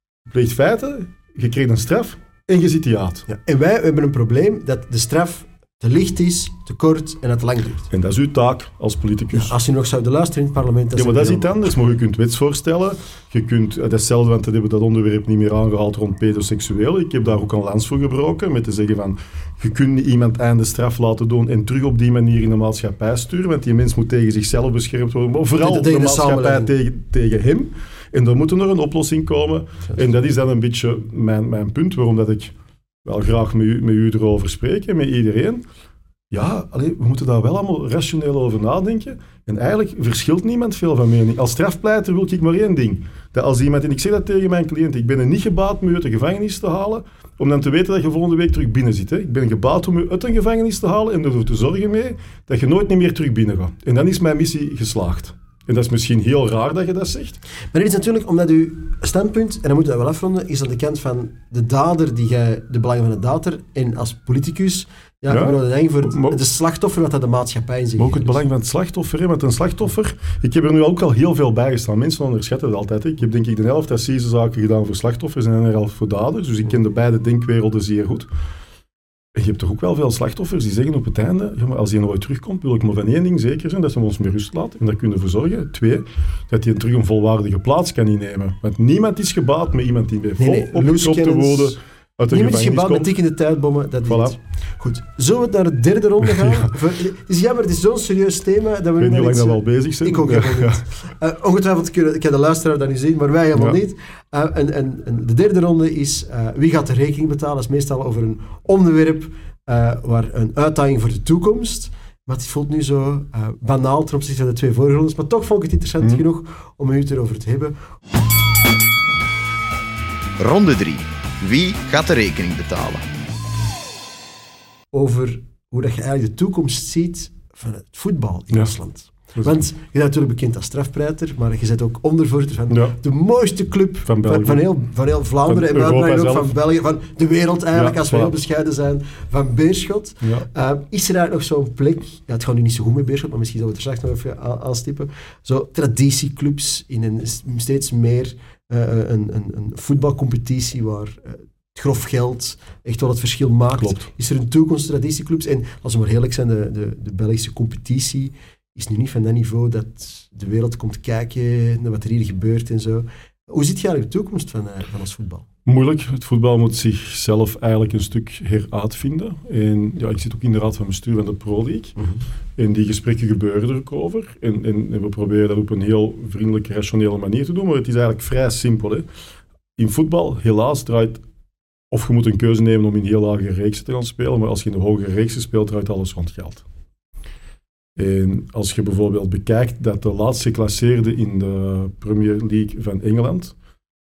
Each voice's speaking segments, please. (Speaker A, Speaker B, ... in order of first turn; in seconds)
Speaker A: 0.3-3.2, 7.9-9.6, 10.9-35.6, 36.3-57.4, 65.3-66.4, 68.0-78.3, 79.3-93.1, 94.0-94.3, 96.2-96.7, 99.0-100.8, 132.7-132.9, 134.1-134.7, 135.5-136.5, 137.7-138.3, 153.8-154.1, 165.6-171.9, 172.6-179.1, 179.8-181.2, 181.9-186.6, 187.9-193.5
Speaker B: 3.3-7.9, 9.3-11.6, 25.6-26.7, 57.7-68.4, 90.4-91.8, 92.3-117.7, 124.9-165.4, 172.0-172.2
Speaker C: 120.4-123.1